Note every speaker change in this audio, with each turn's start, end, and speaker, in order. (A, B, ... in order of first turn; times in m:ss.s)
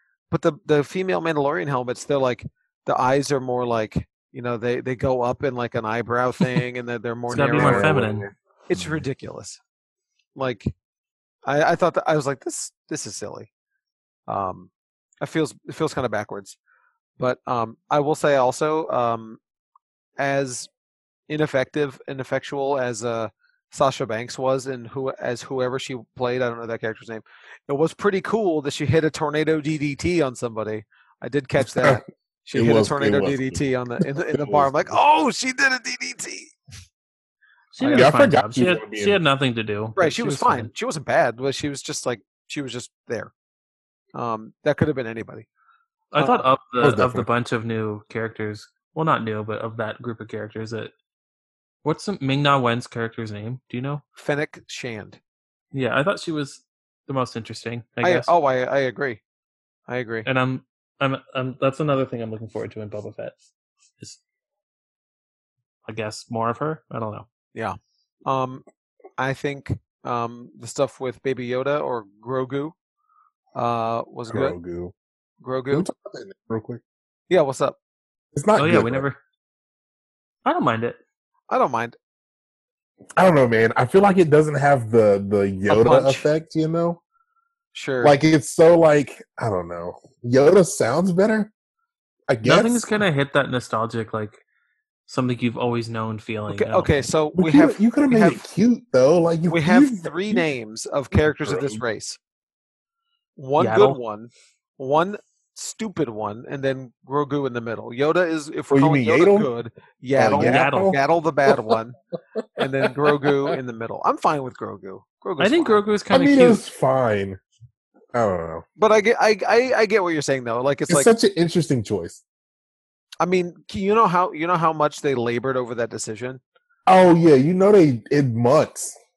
0:00.3-0:08.0 A
0:07.3-0:08.3 B
0:07.3-0:09.0 C
0:08.7-0:09.6 A
0:10.4-0:10.7 A
0:11.4-0:13.5 A
0:14.3-0:14.7 A
0:15.2-0:16.6 A
0:17.2-0:19.4 A
0:20.2-0:20.7 A
0:21.3-0:36.5 A
0:31.6-0:32.0 C
0:32.5-0:35.0 C
0:37.7-0:40.7 B
0:37.8-0:38.1 A
0:37.9-0:39.2 C
0:40.0-0:43.3 A
0:44.1-0:45.5 A
0:46.1-0:50.9 B
0:46.8-0:47.3 C
0:51.8-0:54.0 B
0:54.2-0:55.2 A
0:55.7-0:58.3 B
0:58.0-0:59.2 A
0:59.9-1:00.3 A
1:00.2-1:03.4 B
1:05.8-1:07.3 B
1:07.5-1:08.6 A
1:09.2-1:12.7 A
1:13.6-1:14.6 A
1:14.3-1:14.9 C
1:15.4-1:15.9 A
1:15.7-1:16.8 C
1:17.3-1:17.8 A
1:18.3-1:19.1 C
1:18.6-1:19.2 B
1:20.4-1:21.0 B
1:21.5-1:22.0 A
1:23.2-1:27.0 C
1:25.7-1:26.3 A
1:27.7-1:28.2 A
1:28.0-1:31.5 C
1:32.3-1:32.9 C
1:32.4-1:34.4 B
1:35.1-1:36.9 B
1:36.5-1:38.4 A
1:37.4-1:40.4 C
1:39.5-1:42.2 A
1:41.3-1:41.8 C
1:43.4-1:51.9 A
1:43.6-1:44.0 B
1:48.7-1:49.5 C
1:50.1-1:51.7 C
1:50.3-1:51.0 B
1:52.6-1:55.8 A
1:52.6-1:53.5 C
1:55.4-1:56.6 B
1:56.1-1:57.4 C
1:58.1-1:58.6 C
1:58.8-2:01.1 A
2:00.9-2:02.2 C
2:03.2-2:06.4 A
2:06.9-2:09.0 C